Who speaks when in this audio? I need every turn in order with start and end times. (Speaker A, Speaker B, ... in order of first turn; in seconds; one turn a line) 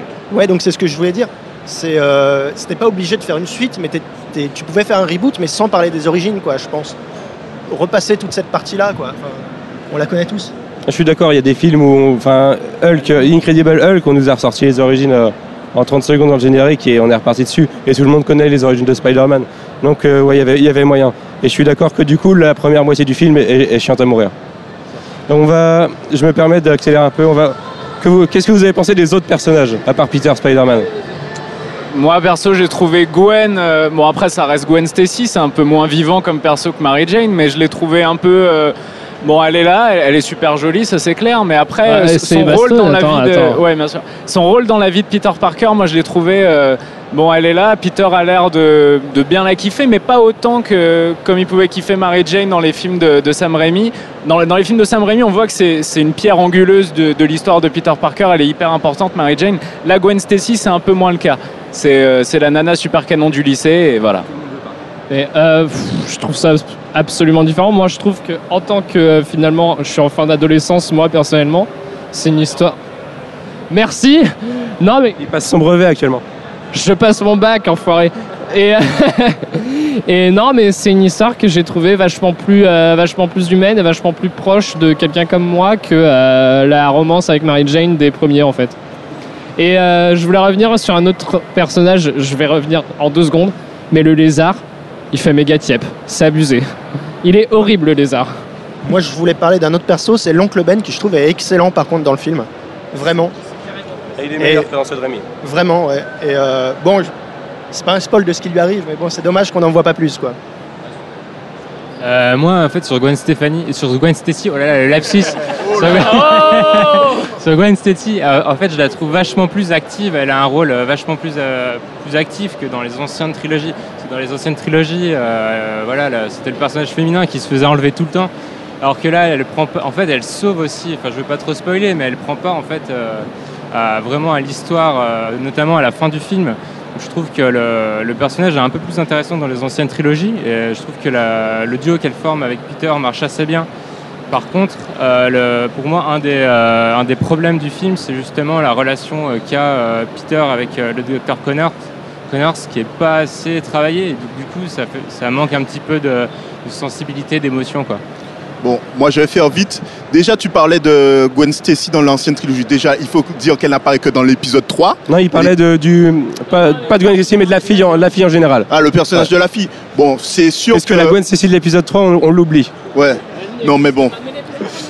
Speaker A: 0.3-7.0
Speaker A: 7.7-10.5
Speaker B: 10.9-24.3
Speaker B: 25.3-30.9
Speaker C: 31.9-64.3
Speaker D: 41.8-43.6
Speaker D: 65.1-72.8
Speaker D: 73.7-75.2
Speaker B: 75.2-76.2
Speaker D: 76.7-88.8
Speaker D: 89.6-96.7
Speaker D: 97.2-98.3
Speaker A: 98.8-103.3
Speaker B: 104.2-105.2
Speaker A: 104.4-104.7
Speaker A: 105.4-107.1
Speaker A: 107.7-110.4
Speaker E: 112.0-143.7
Speaker D: 116.0-116.9
Speaker E: 144.3-151.7
Speaker E: 152.3-158.0
Speaker F: 158.6-165.5
Speaker B: 165.1-169.3
Speaker F: 168.7-171.2
Speaker B: 170.7-172.7
Speaker F: 172.9-174.2